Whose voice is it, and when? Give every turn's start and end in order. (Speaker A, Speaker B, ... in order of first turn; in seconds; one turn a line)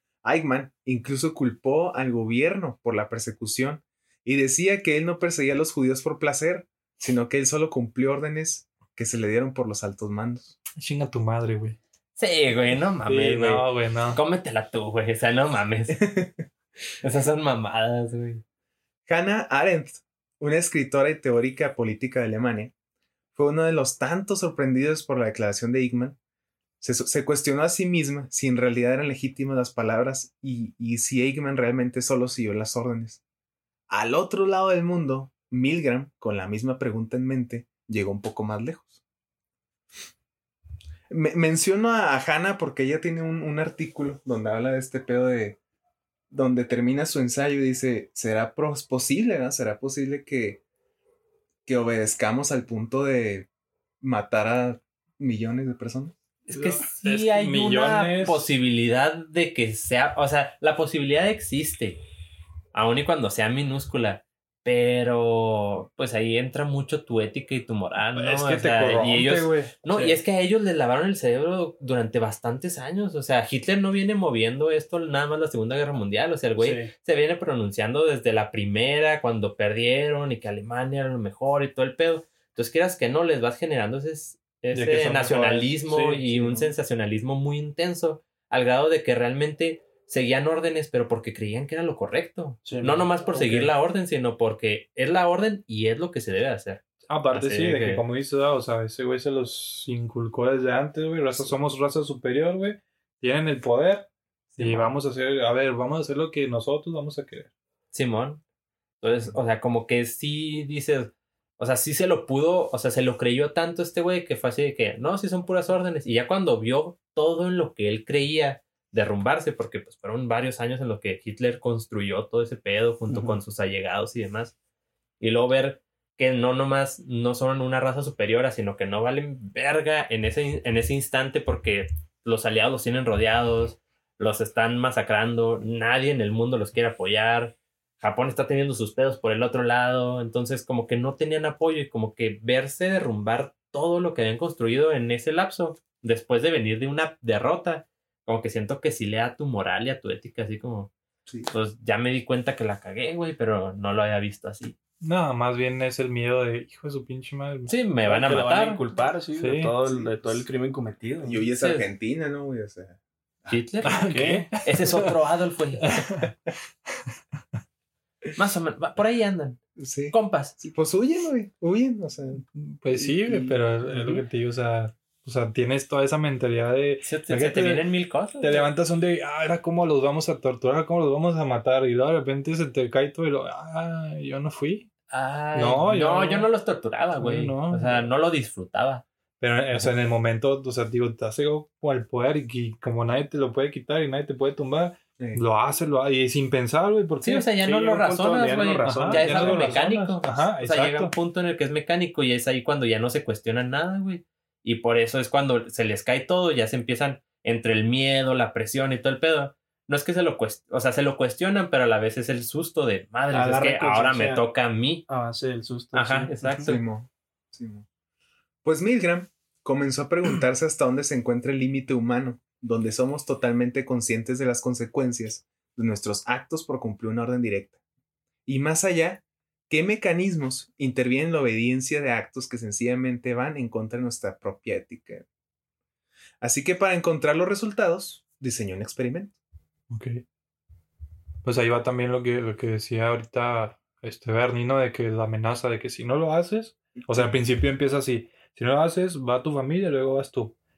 Speaker A: 0.2-10.6
Speaker B: 10.8-11.8
Speaker C: 12.2-16.0
Speaker B: 13.1-14.2
Speaker A: 15.9-16.4
Speaker C: 17.0-18.4
Speaker A: 19.1-22.7
Speaker A: 23.3-26.2
Speaker A: 26.8-33.2
Speaker A: 33.9-39.0
Speaker A: 41.1-45.6
Speaker A: 46.3-50.6
Speaker A: 51.6-53.5
Speaker A: 54.0-56.1
Speaker C: 56.5-62.0
Speaker B: 56.5-58.5
Speaker C: 62.7-98.0
Speaker B: 68.2-69.7
Speaker D: 69.9-70.2
Speaker D: 76.6-76.9
Speaker B: 84.7-86.2
Speaker D: 85.9-86.2
Speaker D: 92.6-93.0
Speaker B: 93.3-93.7
Speaker B: 97.1-107.5
Speaker C: 104.6-104.9
Speaker C: 107.9-108.4
Speaker C: 109.0-124.5
Speaker D: 123.1-123.4
Speaker C: 125.2-150.9
Speaker C: 151.5-154.8
Speaker B: 155.0-157.7
Speaker C: 157.7-158.8
Speaker D: 158.1-161.4
Speaker B: 159.4-159.8
Speaker A: 159.8-160.4
Speaker A: 161.2-163.6
Speaker C: 161.5-161.8
Speaker C: 163.5-166.1
Speaker B: 163.8-165.1
Speaker D: 163.9-164.5
Speaker B: 165.9-166.3
Speaker C: 168.3-169.6
Speaker A: 169.8-172.4
Speaker C: 170.1-170.6
Speaker B: 172.5-177.8
Speaker C: 177.0-178.7
Speaker B: 178.4-184.9
Speaker C: 185.1-189.0
Speaker B: 185.5-186.5
Speaker B: 187.2-188.1
Speaker B: 189.4-197.5
Speaker C: 197.2-215.1
Speaker D: 197.6-199.8
Speaker B: 198.9-201.1
Speaker D: 213.3-214.4
Speaker D: 215.1-216.7
Speaker C: 215.9-216.8
Speaker A: 216.7-217.8
Speaker A: 218.6-227.8
Speaker A: 228.4-235.2
Speaker A: 236.4-239.3
Speaker B: 239.9-240.2
Speaker B: 241.4-250.5
Speaker A: 246.9-247.3